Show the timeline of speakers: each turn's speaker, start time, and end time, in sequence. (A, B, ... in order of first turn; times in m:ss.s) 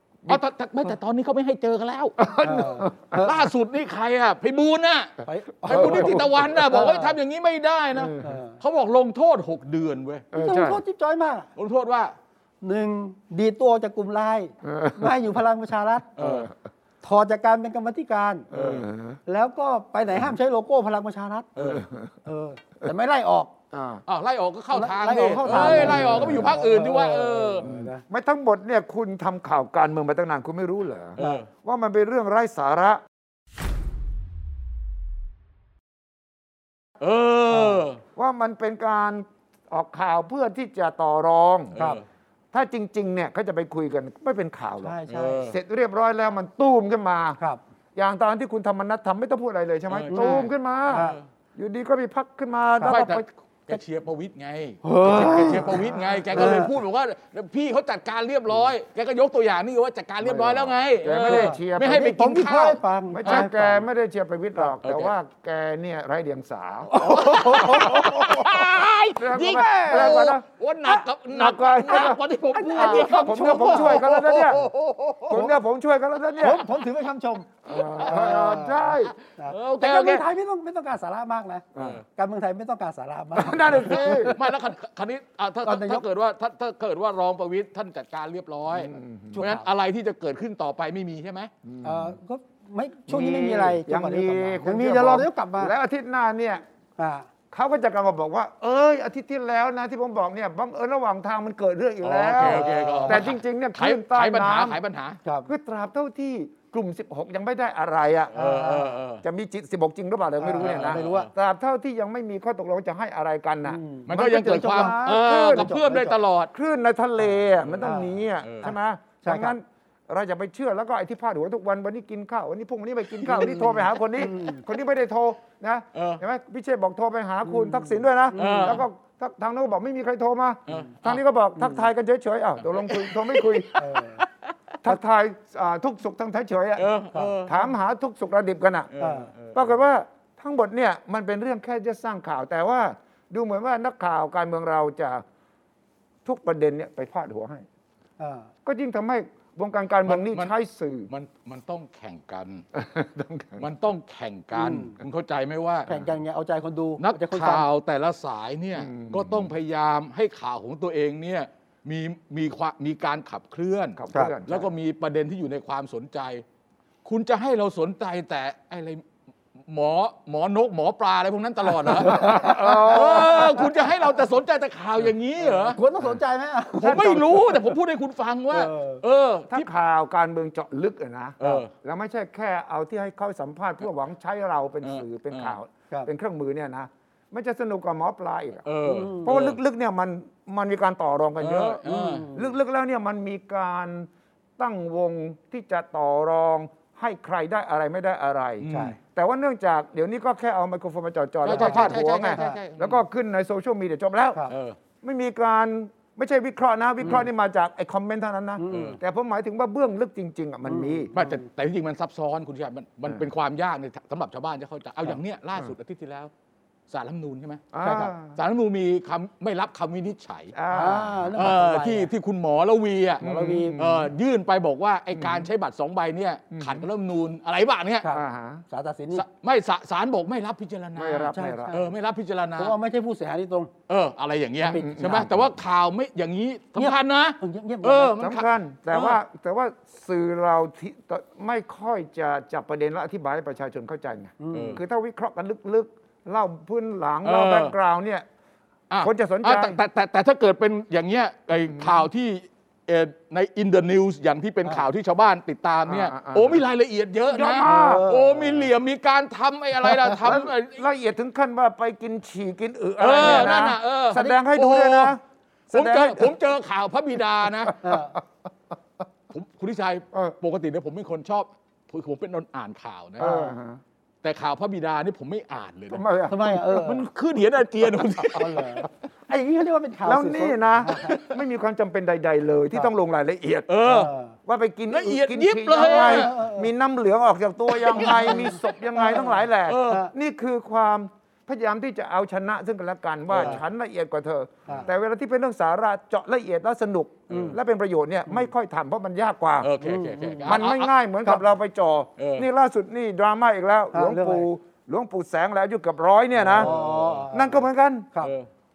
0:00.3-0:10.3 A
0:02.2-0:03.2 B
0:02.4-0:03.4 C
0:05.2-0:07.2 C
0:05.7-0:06.6 B
0:08.0-0:08.4 B
0:08.2-0:08.6 C
0:10.3-0:10.8 B
0:10.4-0:11.5 C
0:11.6-0:12.1 A
0:12.6-0:16.2 C
0:14.6-0:15.1 B
0:16.2-0:16.5 A
0:17.0-0:18.5 C
0:18.5-0:19.2 B
0:18.5-0:18.8 A
0:19.3-0:21.5 C
0:21.6-0:21.9 A
0:21.6-0:22.0 B
0:22.2-0:23.5 C
0:23.7-0:24.0 B
0:24.1-0:27.6 A
0:24.7-0:28.0 C
0:25.5-0:26.5 B
0:27.6-0:33.0 B
0:31.2-0:31.5 A
0:37.0-0:38.0 A
0:37.5-0:37.9 C
0:38.2-0:41.8 B
0:41.7-0:42.0 A
0:42.5-0:47.4 B
0:44.8-0:45.5 C
0:45.1-0:45.6 A
0:48.0-0:53.2 B
0:49.9-0:51.2 A
0:50.1-0:51.2 C
0:52.8-0:53.1 C
0:52.8-1:03.5 A
0:54.8-0:56.7 C
0:55.1-0:56.2 B
1:00.2-1:02.1 B
1:01.2-1:03.8 C
1:03.1-1:08.1 B
1:04.8-1:05.1 A
1:06.9-1:08.6 C
1:07.0-1:15.4 A
1:09.2-1:10.4 B
1:09.4-1:10.3 C
1:11.3-1:12.2 B
1:11.9-1:14.1 C
1:12.7-1:14.7 B
1:15.3-1:16.7 B
1:15.3-1:15.6 C
1:16.4-1:21.6 C
1:17.6-1:19.1 B
1:17.8-1:18.4 A
1:19.1-1:20.2 A
1:21.8-1:22.0 B
1:21.8-1:22.0 A
1:22.2-1:24.6 C
1:23.4-1:24.4 B
1:23.8-1:31.5 A
1:25.6-1:26.0 C
1:28.7-1:29.5 B
1:29.3-1:29.7 C
1:31.6-1:32.2 B
1:31.8-1:35.7 C
1:33.1-1:36.6 B
1:37.0-1:37.3 C
1:37.5-1:44.8 B
1:42.0-1:45.2 A
1:42.4-1:43.2 C
1:45.2-1:45.5 C
1:45.5-1:48.4 B
1:48.3-1:49.2 A
1:48.4-1:49.0 C
1:49.2-1:55.7 B
1:50.4-1:51.3 C
1:50.6-1:51.3 A
1:53.6-1:56.2 C
1:54.1-1:56.5 A
1:56.5-2:13.8 B
1:57.6-1:58.7 A
1:57.8-1:59.6 C
2:03.2-2:04.6 C
2:06.0-2:06.2 A
2:07.5-2:08.8 C
2:08.4-2:08.8 A
2:10.7-2:11.2 A
2:11.6-2:11.9 C
2:12.6-2:14.8 A
2:13.8-2:14.2 C
2:14.8-2:16.9 B
2:16.8-2:17.6 A
2:17.1-2:17.4 C
2:17.4-2:18.9 B
2:18.9-2:19.6 A
2:19.0-2:19.3 C
2:19.5-2:25.2 B
2:26.2-2:27.6 B
2:28.2-2:28.5 C
2:28.6-2:31.1 B
2:30.1-2:30.5 A
2:31.1-2:32.6 A
2:32.7-2:33.6 B
2:33.6-2:35.9 A
2:34.5-2:35.0 C
2:35.9-2:37.7 C
2:37.0-2:46.4 A
2:38.8-2:39.5 B
2:44.0-2:44.7 B
2:47.0-2:49.0 A
2:49.6-2:55.8 A
2:52.0-2:53.7 C
2:52.0-2:53.7 B
2:55.4-2:57.6 C
2:56.8-2:57.6 B
2:56.8-2:59.7 A
2:58.5-2:59.0 C
2:59.5-3:08.7 B
3:01.4-3:01.7 A
3:04.8-3:05.6 A
3:08.7-3:09.6 A
3:08.8-3:09.4 C
3:09.2-3:24.4 B
3:11.4-3:12.3 A
3:11.9-3:12.5 C
3:18.6-3:19.0 A
3:18.7-3:19.0 C
3:21.4-3:23.0 A
3:21.5-3:22.6 C
3:24.5-3:24.8 A
3:25.0-3:31.1 B
3:28.6-3:29.0 C
3:28.7-3:29.0 A
3:30.7-3:31.4 C
3:31.1-3:36.3 A
3:36.9-3:37.7 A
3:37.7-3:38.4 B
3:37.8-3:38.1 C
3:38.3-3:40.5 A
3:40.5-3:41.5 B
3:40.7-3:42.1 C
3:41.4-3:48.1 A
3:43.2-3:43.8 C
3:43.2-3:44.1 B
3:45.1-3:45.5 B
3:46.5-3:46.9 B
3:48.0-3:49.2 C
3:48.1-3:48.6 B
3:49.1-3:52.8 A
3:51.0-3:51.7 B
3:51.3-3:51.9 C
3:52.6-3:53.7 C
3:53.9-3:58.5 A
3:54.6-3:55.3 C
3:54.7-3:55.5 B
3:56.8-3:58.2 C
3:58.2-4:08.2 B
4:04.4-4:04.8 C
4:04.5-4:04.8 A
4:07.2-4:07.7 A
4:08.9-4:20.8 A
4:09.0-4:09.8 B
4:11.8-4:12.0 B
4:15.9-4:16.6 B
4:17.3-4:18.0 B
4:17.6-4:18.7 C
4:20.0-4:26.4 B
4:23.0-4:25.2 A
4:23.3-4:23.6 C
4:25.7-4:27.8 A
4:27.5-4:28.2 B
4:27.8-4:28.2 C
4:29.3-4:33.3 A
4:33.2-4:33.5 C
4:33.2-4:33.8 B
4:34.2-4:36.0 A
4:35.9-4:36.7 B
4:36.3-4:37.1 C
4:36.7-4:38.8 A
4:38.3-4:41.2 C
4:40.0-4:43.7 B
4:41.0-4:41.3 A
4:43.7-4:44.1 A
4:43.8-4:44.4 C
4:44.5-4:59.7 B
4:44.9-4:46.4 A
4:45.8-4:46.7 C
4:47.8-4:48.4 A
4:47.9-4:50.1 C
4:49.7-4:50.1 A
4:53.3-4:53.6 A
4:57.3-4:57.6 A
4:57.3-4:57.6 C
4:59.6-5:00.9 A
4:59.8-5:00.6 C
5:00.4-5:06.7 B
5:02.2-5:02.5 A
5:03.9-5:04.5 C
5:06.4-5:07.6 C
5:06.5-5:07.3 A
5:07.3-5:08.1 B
5:08.2-5:08.5 A